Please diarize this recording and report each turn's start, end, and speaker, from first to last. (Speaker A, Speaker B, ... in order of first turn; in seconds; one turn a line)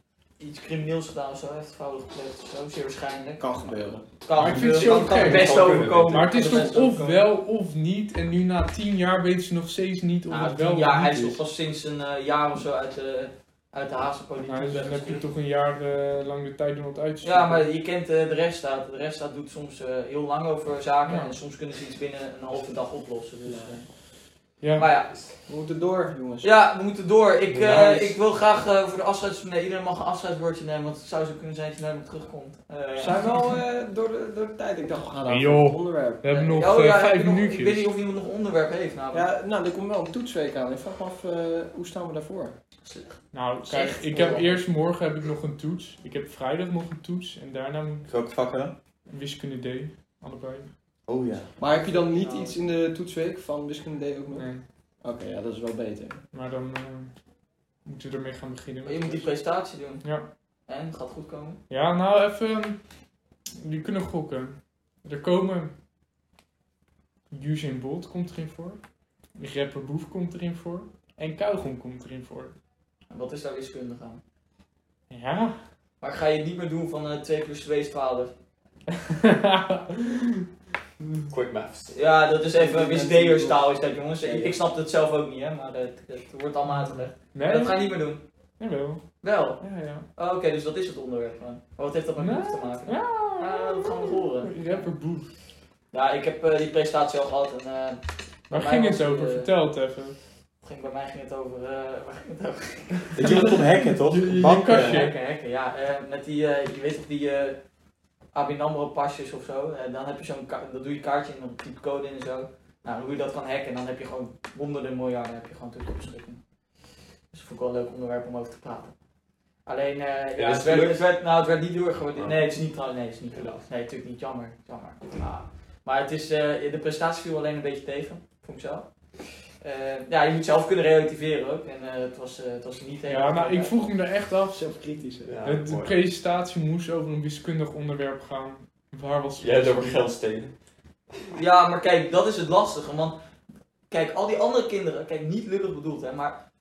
Speaker A: 0.4-3.5
Speaker B: 3.4-4.0
Speaker A: 4.2-7.2
Speaker C: 4.3-11.4
Speaker D: 4.4-6.9
Speaker A: 10.3-15.2
Speaker C: 14.4-17.6
Speaker A: 17.2-23.9
Speaker C: 21.1-21.3
Speaker B: 23.4-23.8
Speaker C: 24.6-24.9
Speaker A: 24.8-25.2
Speaker B: 25.5-26.5
Speaker A: 26.4-33.3
Speaker D: 27.5-28.1
Speaker B: 33.0-36.7
Speaker C: 35.3-37.9
Speaker A: 36.5-39.3
Speaker B: 39.1-42.5
Speaker A: 42.9-43.2
Speaker C: 43.3-48.1
Speaker A: 43.7-44.4
Speaker B: 43.7-44.5
Speaker E: 48.1-48.7
Speaker C: 49.1-50.7
Speaker E: 51.1-51.5
Speaker B: 51.6-54.5
Speaker A: 51.8-52.6
Speaker C: 54.3-54.6
Speaker B: 55.0-56.2
Speaker C: 56.3-57.1
Speaker C: 57.9-59.3
Speaker A: 58.9-60.0
Speaker A: 60.7-61.6
Speaker C: 61.7-62.8
Speaker C: 63.6-65.7
Speaker C: 67.3-68.8
Speaker C: 69.4-72.5
Speaker A: 73.1-74.2
Speaker C: 75.1-75.6
Speaker A: 76.0-78.3
Speaker C: 79.1-80.5
Speaker D: 81.3-82.0
Speaker A: 82.0-88.2
Speaker B: 82.6-83.7
Speaker B: 84.2-84.6
Speaker C: 87.3-87.9
Speaker C: 88.6-89.0
Speaker A: 89.2-89.6
Speaker C: 89.6-90.1
Speaker A: 90.2-94.8
Speaker C: 92.2-95.3
Speaker A: 95.9-99.5
Speaker C: 98.5-100.2
Speaker A: 100.6-103.5
Speaker E: 103.1-105.1
Speaker C: 103.2-105.2
Speaker A: 104.7-107.6
Speaker A: 108.3-116.4
Speaker A: 117.3-118.9
Speaker A: 119.7-128.9
Speaker D: 120.4-121.1
Speaker D: 122.2-122.6
Speaker D: 123.3-123.6
Speaker A: 129.6-133.8
Speaker C: 133.1-134.6
Speaker B: 134.5-135.3
Speaker D: 135.2-136.0
Speaker C: 135.4-140.1
Speaker D: 139.4-140.5
Speaker A: 141.3-143.2
Speaker A: 143.9-146.4